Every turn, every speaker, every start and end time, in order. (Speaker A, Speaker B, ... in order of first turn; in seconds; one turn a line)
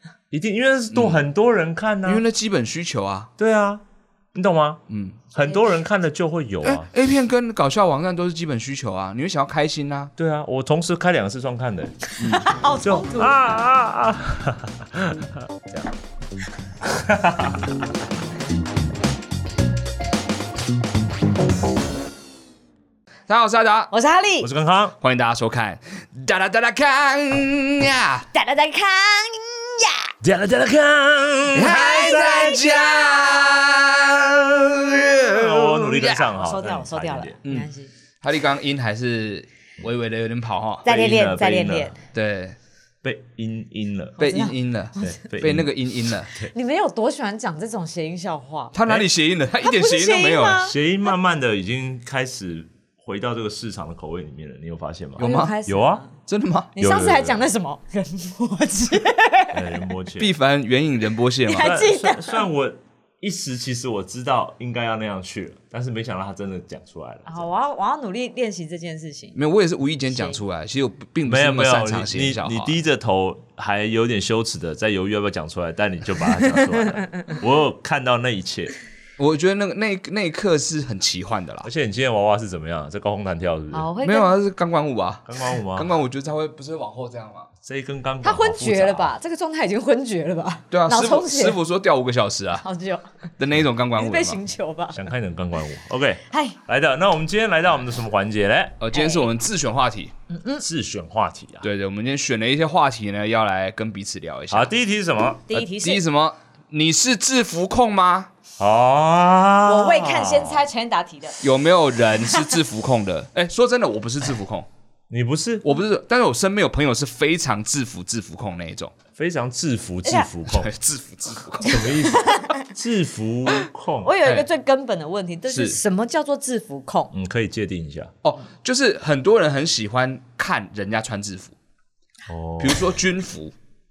Speaker A: 0.3-2.2
Speaker B: 0.9-1.2
Speaker B: 2.0-3.3
Speaker A: 3.4-3.8
Speaker A: 4.3-4.8
Speaker B: 4.9-5.2
Speaker A: 5.3-6.9
Speaker B: 6.6-10.1
Speaker A: 10.2-12.1
Speaker C: 12.2-13.4
Speaker B: 12.2-12.5
Speaker A: 12.8-15.9
Speaker A: 16.9-17.6
Speaker B: 23.3-23.9
Speaker C: 23.9-24.5
Speaker A: 24.4-25.0
Speaker B: 25.0-28.3
Speaker C: 28.3-30.1
Speaker A: 30.2-33.1
Speaker B: 31.5-36.2
Speaker C: 31.6-32.9
Speaker A: 35.2-37.4
Speaker C: 36.1-37.9
Speaker B: 38.2-40.8
Speaker C: 40.8-42.0
Speaker A: 40.9-41.9
Speaker B: 42.1-42.6
Speaker A: 43.0-44.2
Speaker B: 44.2-46.3
Speaker C: 44.2-45.2
Speaker A: 45.0-45.7
Speaker C: 46.3-48.7
Speaker B: 48.7-50.7
Speaker C: 49.6-50.8
Speaker A: 50.6-56.0
Speaker B: 55.2-55.5
Speaker C: 55.2-56.1
Speaker B: 56.3-56.7
Speaker C: 56.8-59.8
Speaker A: 56.8-57.5
Speaker A: 59.5-60.3
Speaker B: 60.2-61.8
Speaker C: 61.5-62.4
Speaker A: 61.6-67.5
Speaker C: 67.2-69.4
Speaker B: 69.4-72.8
Speaker C: 70.1-70.4
Speaker A: 71.2-78.8
Speaker C: 76.4-77.3
Speaker B: 79.2-81.7
Speaker A: 81.6-83.9
Speaker C: 83.7-84.3
Speaker B: 84.0-87.5
Speaker A: 85.3-85.9
Speaker A: 87.6-89.1
Speaker C: 88.2-91.6
Speaker B: 90.7-92.6
Speaker C: 92.6-93.0
Speaker B: 93.4-94.4
Speaker C: 94.0-95.1
Speaker A: 94.9-98.8
Speaker C: 96.3-96.6
Speaker B: 98.8-100.1
Speaker C: 98.9-99.3
Speaker C: 100.3-100.6
Speaker A: 100.6-101.7
Speaker B: 101.6-104.7
Speaker A: 104.5-105.5
Speaker C: 105.5-106.0
Speaker B: 105.5-108.3
Speaker A: 108.6-110.6
Speaker C: 109.7-111.4
Speaker B: 111.4-114.7
Speaker A: 115.1-115.7
Speaker B: 115.6-118.9
Speaker A: 119.2-120.7
Speaker B: 120.5-122.1
Speaker A: 121.6-124.1
Speaker C: 121.6-122.7
Speaker C: 124.0-127.1
Speaker B: 125.5-125.8
Speaker A: 127.1-128.1
Speaker B: 128.2-131.5
Speaker A: 132.3-132.8
Speaker B: 132.6-133.5